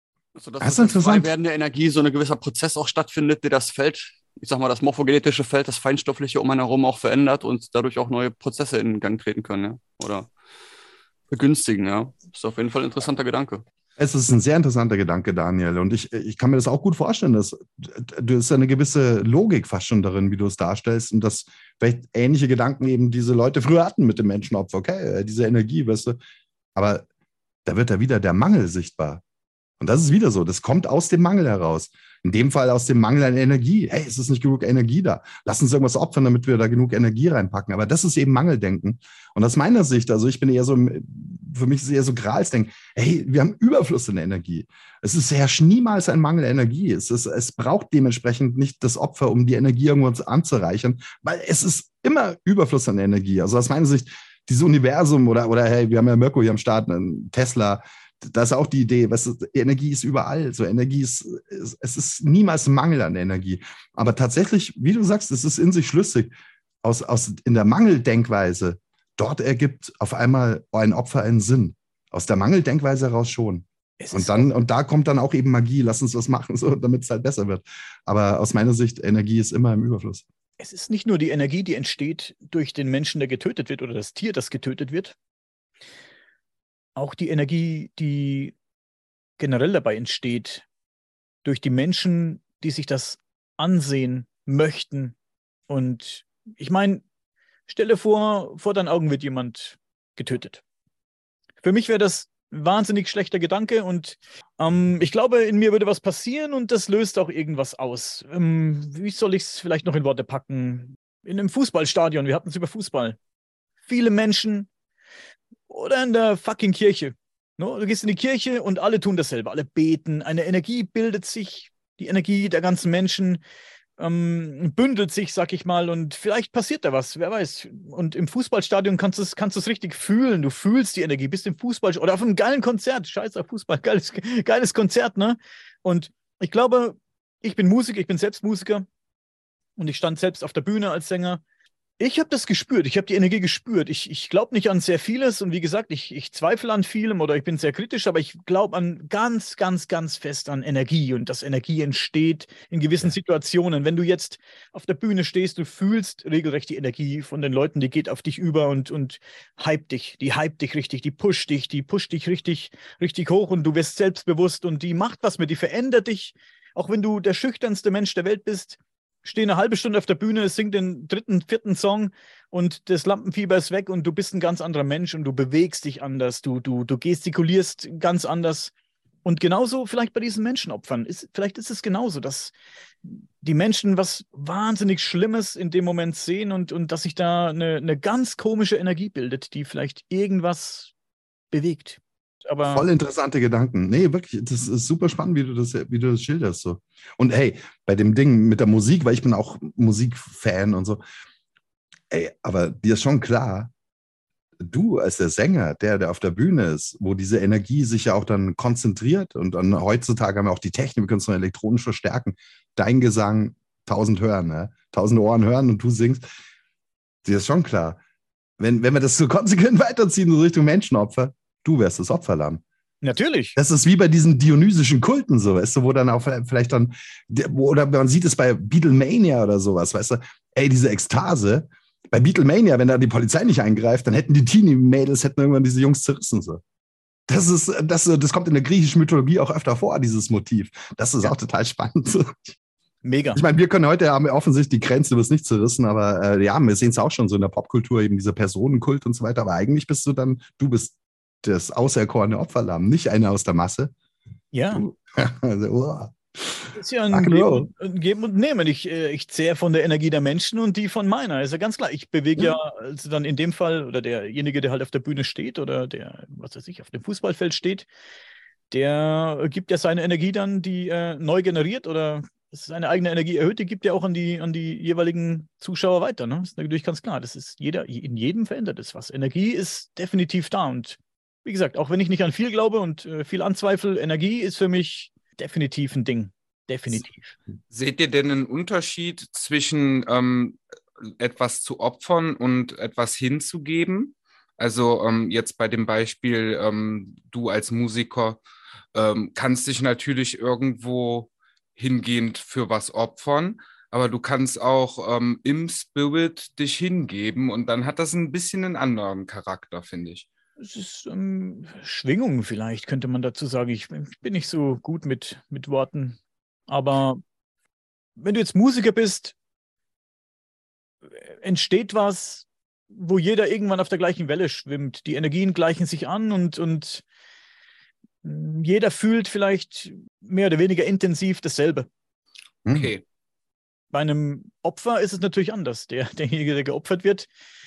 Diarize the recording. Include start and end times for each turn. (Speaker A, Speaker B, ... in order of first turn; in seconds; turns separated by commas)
Speaker A: 0.3-10.3, Speaker B: 0.6-1.3, Speaker A: 11.3-13.6, Speaker B: 14.0-26.2, Speaker B: 26.7-27.1, Speaker B: 27.6-29.2, Speaker B: 29.8-66.3, Speaker B: 66.8-80.2, Speaker C: 74.0-74.5, Speaker C: 80.6-85.1, Speaker C: 87.0-88.5, Speaker C: 89.4-90.7, Speaker C: 91.4-95.2, Speaker C: 95.7-97.0, Speaker C: 97.7-100.6, Speaker C: 101.6-113.2, Speaker C: 113.8-114.7, Speaker C: 115.7-123.4, Speaker C: 124.0-138.8, Speaker C: 139.8-141.4, Speaker C: 142.0-178.7, Speaker C: 179.2-182.5, Speaker C: 183.0-190.9, Speaker C: 191.5-192.8, Speaker B: 192.6-201.0, Speaker B: 202.1-203.7, Speaker B: 204.6-216.2, Speaker B: 217.2-218.0, Speaker B: 218.6-222.6, Speaker C: 223.0-223.6, Speaker B: 223.6-236.6, Speaker B: 237.3-242.6, Speaker C: 243.0-243.4, Speaker B: 243.3-253.9, Speaker C: 254.5-254.8, Speaker B: 254.7-257.7, Speaker C: 256.8-267.9, Speaker C: 268.7-287.3, Speaker D: 287.7-290.6, Speaker D: 291.2-298.4, Speaker D: 298.9-310.3, Speaker C: 310.6-316.2, Speaker C: 316.7-317.2, Speaker C: 318.2-319.3, Speaker C: 321.2-327.0, Speaker C: 328.2-331.9, Speaker B: 332.6-332.9, Speaker D: 332.7-333.0, Speaker C: 333.9-337.3